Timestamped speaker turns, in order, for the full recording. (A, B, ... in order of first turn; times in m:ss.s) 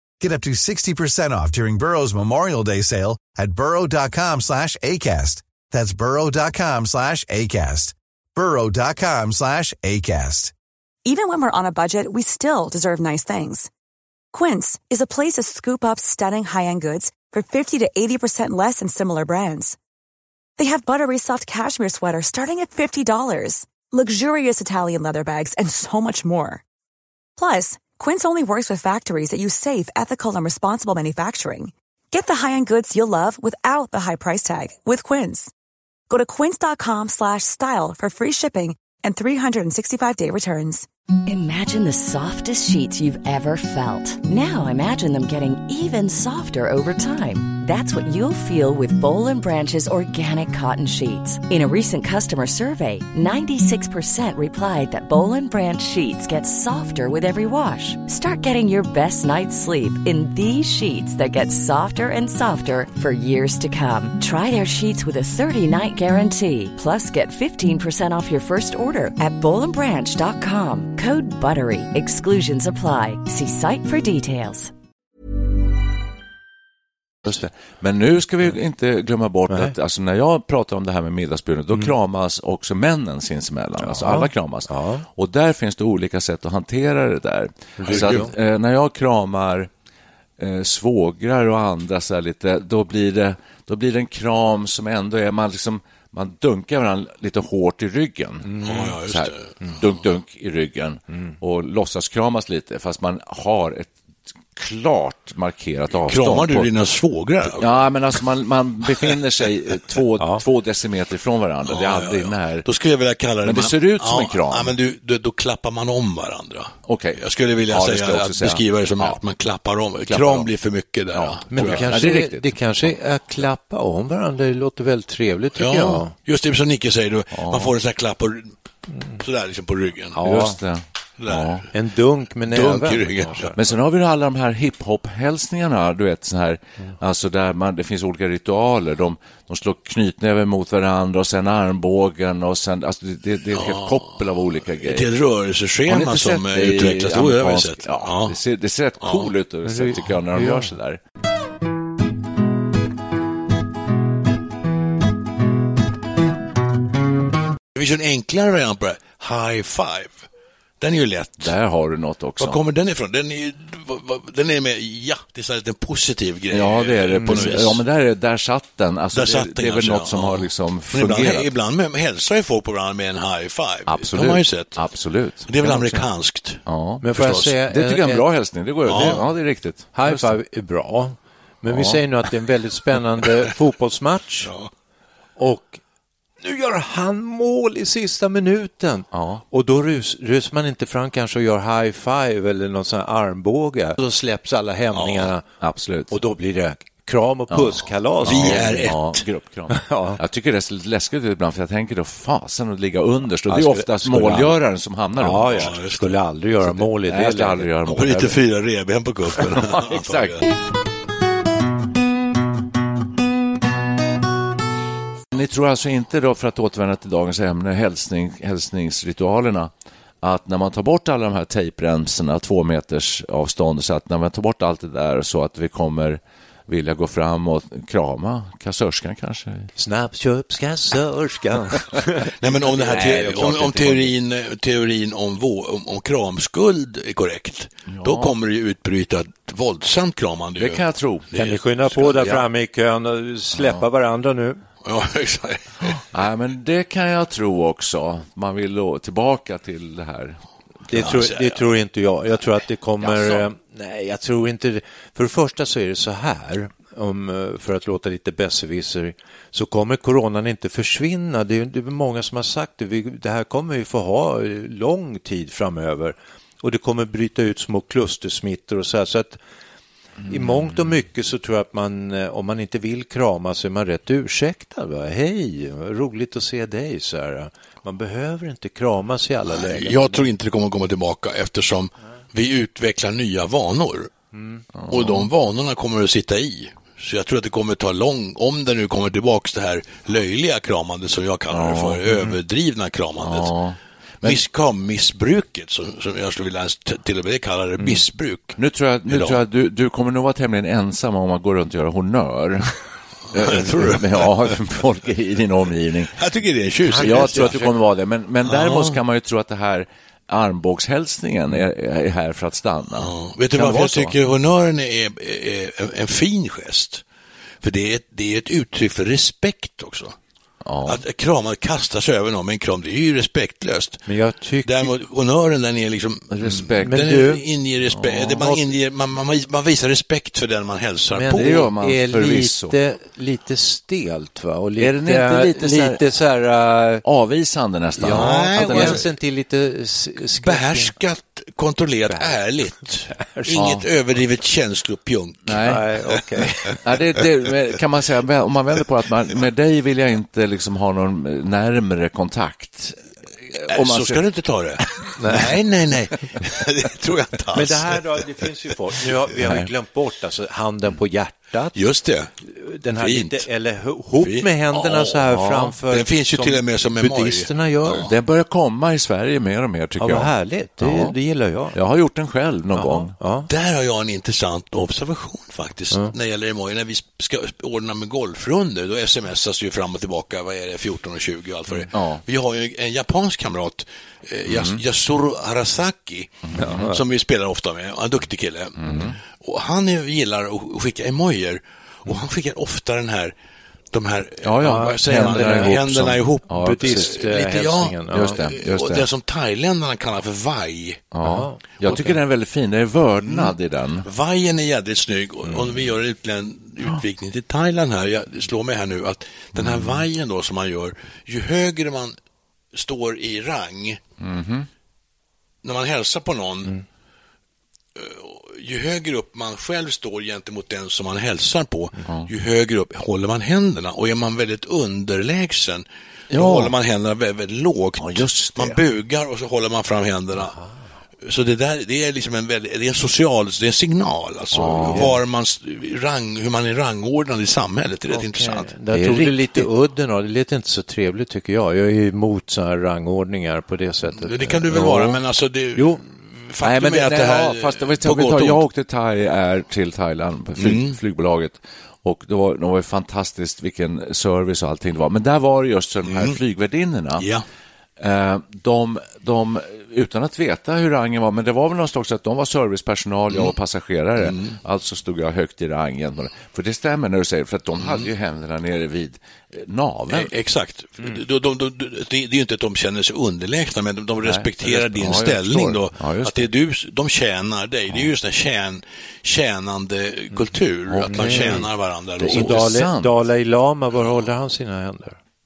0:00.2-0:10.5 A
0:11.0-0:13.7 B
0:14.3-0:19.8 B
0:20.6-0:26.6 B
0:27.4-0:35.5 B
0:36.1-0:40.8 B
0:41.2-1:14.7 C
1:17.2-1:29.7 D
1:19.5-1:19.7 E
1:23.8-1:25.0 E
1:27.8-1:28.3 E
1:27.8-1:28.2 F
1:30.4-1:43.9 D
1:38.5-1:38.8 E
1:38.6-1:39.5 F
1:44.5-1:46.7 D
1:46.0-1:47.9 F
1:47.5-1:52.6 D
1:51.7-2:01.9 F
1:53.4-1:54.7 D
1:56.8-1:59.2 D
2:00.1-2:00.5 D
2:01.1-2:02.6 D
2:01.5-2:06.1 E
2:05.6-2:08.5 F
2:07.3-2:07.7 D
2:09.1-2:10.2 F
2:10.2-2:10.6 E
2:10.2-2:11.6 D
2:11.2-2:11.7 F
2:11.7-2:13.6 E
2:12.5-2:13.6 F
2:13.6-2:25.1 D
2:23.5-2:24.2 F
2:24.7-2:28.4 F
2:25.9-2:31.0 D
2:29.0-2:29.3 F
2:29.6-2:30.7 E
2:37.7-2:40.2 F
2:40.8-2:41.5 F
2:41.4-2:42.6 D
2:42.4-2:47.8 F
2:46.5-2:51.5 D
2:47.2-2:47.5 E
2:49.1-2:54.8 F
2:53.9-2:56.1 D
2:55.5-2:56.6 F
2:56.6-3:00.4 D
2:57.0-2:58.2 E
2:57.1-2:57.5 F
2:58.8-2:59.2 F
2:59.9-3:04.5 E
3:01.6-3:02.0 D
3:04.4-3:04.7 F
3:05.4-3:05.8 E
3:06.4-3:15.4 E
3:09.1-3:09.4 D
3:14.9-3:15.3 F
3:15.6-3:16.2 D
3:16.1-3:18.9 E
3:17.5-3:25.8 D
3:18.2-3:19.2 F
3:19.7-3:20.2 E
3:23.5-3:24.6 E
3:25.2-3:27.7 E
3:25.4-3:26.2 F
3:26.6-3:28.4 D
3:27.9-3:30.5 F
3:29.4-3:30.5 D
3:35.3-3:39.7 D
3:40.2-3:49.7 D
3:49.8-3:54.1 E
3:52.4-4:02.3 F
3:57.9-3:58.3 D
4:00.6-4:01.3 D
4:01.3-4:04.6 E
4:02.2-4:02.4 D
4:03.5-4:03.8 D
4:04.8-4:06.0 F
4:06.1-4:10.4 D
4:10.9-4:29.4 E
4:11.0-4:11.6 F
4:13.0-4:13.5 D
4:30.3-4:40.2 E
4:30.4-4:30.7 D
4:39.5-4:44.1 F
4:44.3-4:44.6 E
4:44.7-4:45.3 D
4:44.9-4:53.5 F
4:51.5-4:52.2 D
4:53.2-4:54.4 D
4:54.2-4:59.4 F
4:58.6-5:02.8 D
5:03.3-5:06.2 D
5:03.3-5:04.5 F
5:06.2-5:07.6 F
5:06.9-5:07.7 E
5:06.9-5:14.1 D
5:08.4-5:09.0 F
5:13.0-5:17.0 F
5:17.6-5:20.2 F
5:20.6-5:21.0 D
5:20.8-5:24.1 F
5:24.1-5:24.9 E
5:24.6-5:31.7 F
5:26.3-5:27.0 D
5:26.5-5:27.4 E
5:27.9-5:28.6 D
5:31.1-5:37.0 E
5:31.3-5:32.8 D
5:34.8-5:36.0 D
5:37.0-5:39.0 D
5:38.0-5:40.9 E
5:38.1-5:39.0 F
5:40.3-5:45.6 F
5:42.1-5:42.4 E
5:43.2-5:43.6 E
5:43.5-5:43.8 D
5:45.4-5:45.9 D
5:45.6-5:46.8 E
5:46.8-5:54.2 D
5:53.7-5:58.3 F
5:54.8-5:55.1 D
5:55.1-5:55.5 E
5:57.5-6:01.7 E
5:59.4-5:59.7 D
6:01.7-6:02.3 F
6:02.4-6:08.0 E
6:03.0-6:03.5 F
6:04.2-6:05.2 F
6:05.3-6:05.7 D
6:05.9-6:08.1 F
6:08.0-6:11.2 D
6:10.0-6:11.8 E
6:11.7-6:13.1 D
6:12.7-6:13.5 E
6:13.5-6:33.3 F
6:21.9-6:22.2 D
6:24.5-6:24.8 D
6:26.4-6:26.9 D
6:26.6-6:27.0 E
6:28.8-6:29.2 D
6:33.9-6:41.1 F
6:34.4-6:37.1 D
6:34.6-6:35.8 E
6:36.5-6:38.4 E
6:38.1-6:39.0 D
6:41.1-6:44.1 D
6:41.2-6:42.1 E
6:41.8-6:42.1 F
6:43.2-6:52.2 F
6:49.5-6:50.0 D
6:52.7-6:54.0 F
6:54.2-6:54.7 D
6:55.6-6:56.7 F
6:58.0-7:10.6 F
7:06.3-7:06.7 D
7:08.0-7:08.8 D
7:11.2-7:18.7 F
7:14.5-7:15.1 D
7:14.8-7:15.2 E
7:18.1-7:25.0 E
7:18.9-7:19.7 D
7:24.1-7:28.6 F
7:24.7-7:25.2 D
7:25.8-7:26.0 E
7:26.6-7:37.3 D
7:30.6-7:31.0 F
7:36.1-7:36.4 F
7:37.2-7:37.4 F
7:38.0-7:50.3 D
7:44.2-7:44.6 F
7:50.1-8:02.6 F
7:54.2-7:56.5 D
8:00.9-8:03.1 D
8:01.1-8:01.6 E
8:02.3-8:05.2 E